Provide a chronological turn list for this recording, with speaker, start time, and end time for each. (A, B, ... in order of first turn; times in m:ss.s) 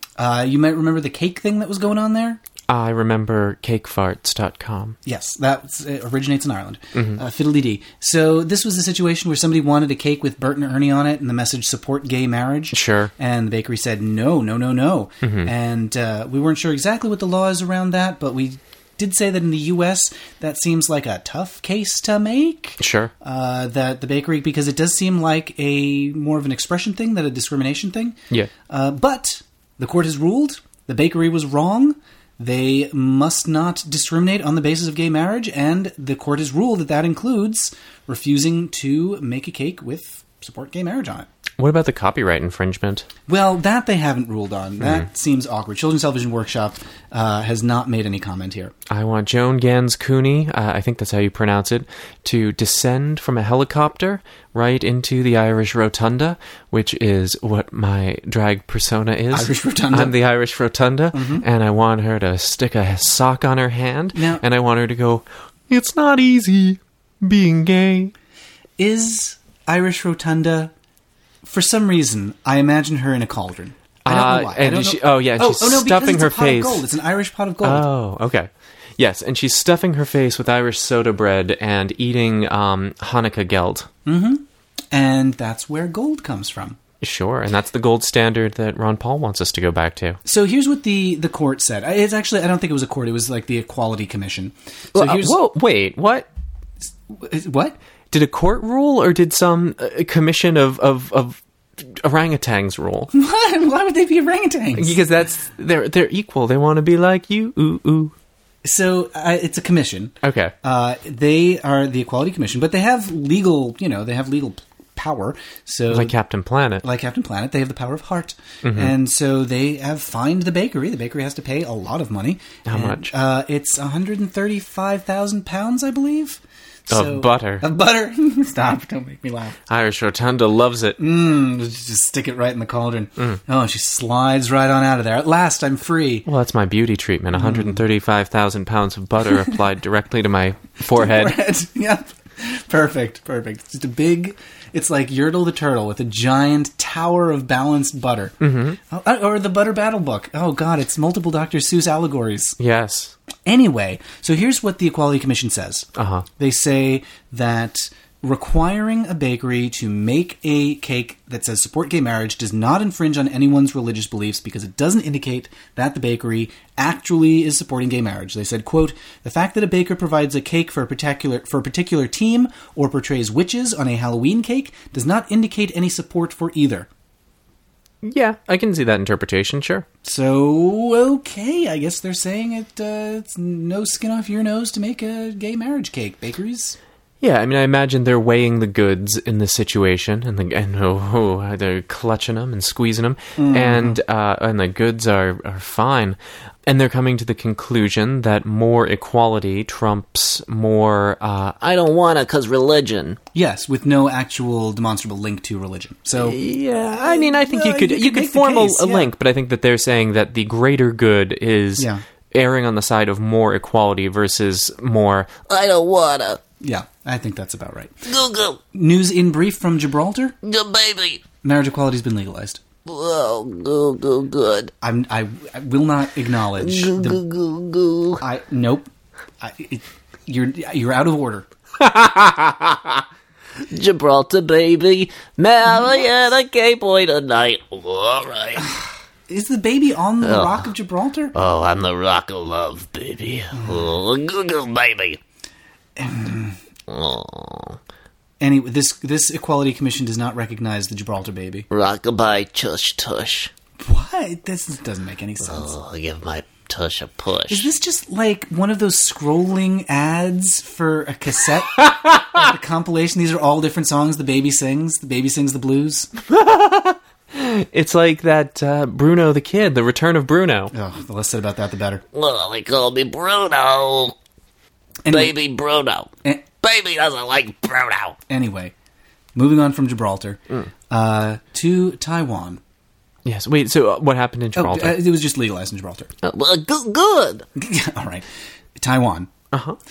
0:00.2-0:02.4 A
0:02.7-0:05.0 B
0:05.0-0:41.3 A
0:06.9-0:07.2 B
0:12.7-0:13.1 B
0:15.2-0:15.5 B
0:22.8-0:23.1 B
0:41.6-0:43.1 B
0:43.3-0:48.7 A
0:48.9-1:08.1 B
0:59.3-1:00.2 A
1:01.1-1:01.4 A
1:04.1-1:04.4 A
1:08.8-1:10.7 A
1:11.4-1:17.8 A
1:14.0-1:16.8 B
1:17.6-1:23.9 B
1:24.0-1:26.8 A
1:27.0-1:30.2 B
1:30.2-1:35.4 A
1:34.9-1:36.3 B
1:37.1-1:37.8 A
1:38.1-1:43.1 B
1:43.1-1:45.0 A
1:44.8-1:48.1 B
1:48.6-1:56.1 A
1:50.2-1:50.5 B
1:55.9-1:56.8 B
1:56.8-2:09.6 A
1:58.6-1:58.9 B
2:02.6-2:03.1 B
2:06.9-2:07.6 B
2:09.7-2:11.0 B
2:11.0-2:16.3 A
2:16.2-2:21.4 B
2:17.3-2:17.8 A
2:20.9-2:32.6 A
2:28.4-2:28.8 B
2:32.6-2:33.1 B
2:33.4-2:56.9 A
2:36.0-2:36.2 B
2:58.0-2:59.8 B
3:00.0-3:06.8 A
3:07.2-3:21.6 B
3:13.4-3:14.0 A
3:21.6-3:23.2 C
3:23.3-3:29.1 A
3:26.2-3:35.4 B
3:31.8-3:32.0 A
3:35.5-3:36.4 C
3:36.6-3:38.1 A
3:38.0-3:38.6 C
3:38.7-3:40.4 A
3:40.4-3:41.2 C
3:41.4-3:42.6 A
3:42.8-3:44.7 C
3:44.8-3:47.2 A
3:46.6-3:48.2 C
3:48.2-3:48.9 A
3:49.4-3:51.5 A
3:51.8-3:52.9 C
3:53.7-3:58.7 C
3:59.3-4:01.3 A
4:00.2-4:00.7 C
4:01.3-4:05.2 C
4:03.5-4:03.8 A
4:06.0-4:06.6 A
4:06.9-4:07.8 C
4:08.4-4:11.7 A
4:11.7-4:13.5 C
4:13.8-4:15.7 A
4:15.4-4:17.7 C
4:17.5-4:26.1 A
4:26.3-4:30.7 B
4:30.7-4:32.0 A
4:32.1-4:34.1 C
4:35.0-4:35.3 A
4:35.1-4:38.2 C
4:38.3-4:38.7 A
4:39.4-4:42.6 A
4:43.2-4:45.0 B
4:44.5-4:46.1 A
4:46.2-4:47.4 C
4:47.6-4:49.3 A
4:49.5-4:49.8 B